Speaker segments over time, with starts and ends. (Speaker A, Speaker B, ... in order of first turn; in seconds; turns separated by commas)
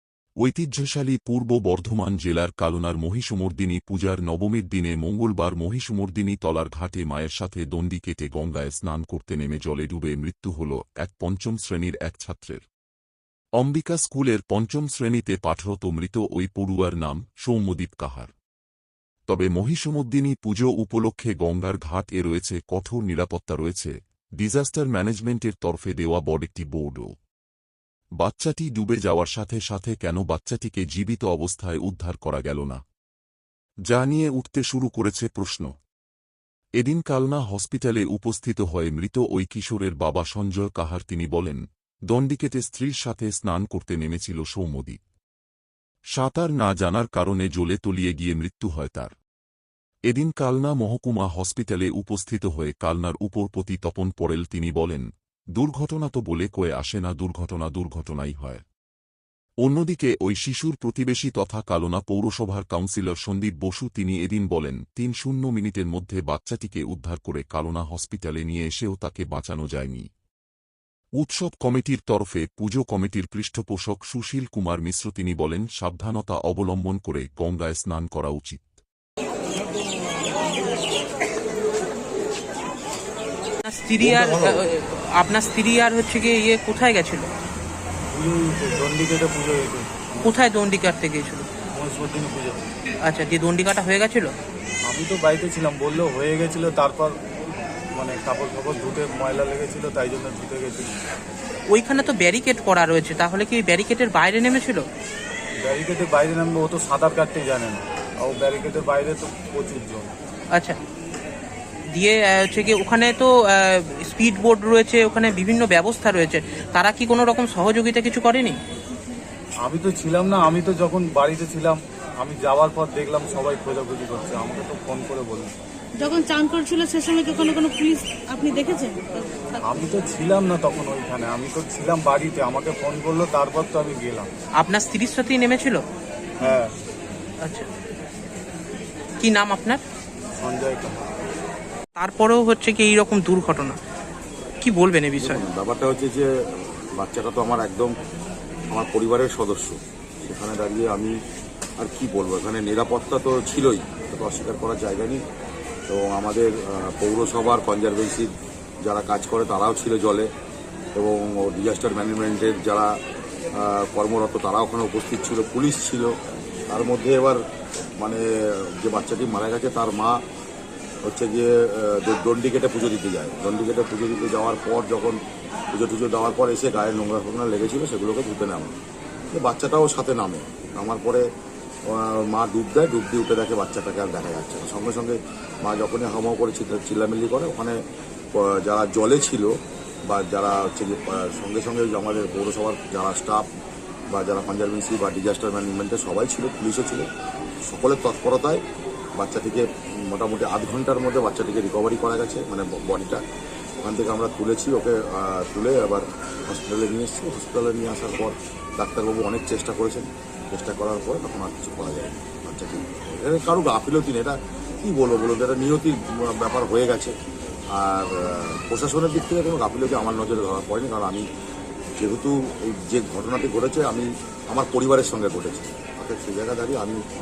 Speaker A: 0.4-12.6, Speaker A: 13.6-18.3, Speaker A: 19.3-27.1, Speaker A: 28.2-32.8, Speaker A: 33.9-35.7, Speaker A: 36.8-45.0, Speaker A: 46.1-49.1, Speaker A: 50.1-58.6, Speaker A: 59.6-70.1, Speaker A: 71.2-78.8, Speaker B: 83.7-87.3, Speaker C: 88.1-90.3, Speaker B: 90.2-91.5, Speaker C: 91.7-92.6, Speaker B: 93.1-94.3, Speaker C: 94.9-97.2, Speaker C: 97.9-100.9, Speaker B: 101.7-104.8, Speaker C: 105.6-110.1, Speaker B: 112.0-118.6, Speaker C: 119.6-125.5, Speaker D: 126.0-129.6, Speaker C: 129.7-134.3, Speaker B: 134.6-135.8, Speaker C: 136.4-136.7, Speaker B: 139.2-139.8, Speaker C: 140.4-141.1, Speaker B: 141.9-143.8, Speaker B: 144.6-145.4, Speaker E: 145.2-147.9, Speaker E: 148.7-151.1, Speaker E: 151.8-155.2, Speaker E: 155.9-158.3, Speaker E: 158.8-160.3, Speaker E: 160.9-163.0, Speaker E: 163.5-166.1, Speaker E: 166.7-167.4, Speaker E: 168.0-170.2, Speaker E: 171.1-175.2, Speaker E: 175.7-178.7, Speaker E: 179.3-181.2, Speaker E: 181.9-187.8, Speaker E: 188.3-189.5, Speaker E: 190.1-193.5, Speaker E: 194.1-197.1, Speaker E: 197.7-198.6, Speaker E: 199.2-203.2, Speaker E: 203.8-217.1, Speaker E: 217.7-221.2, Speaker E: 222.0-227.0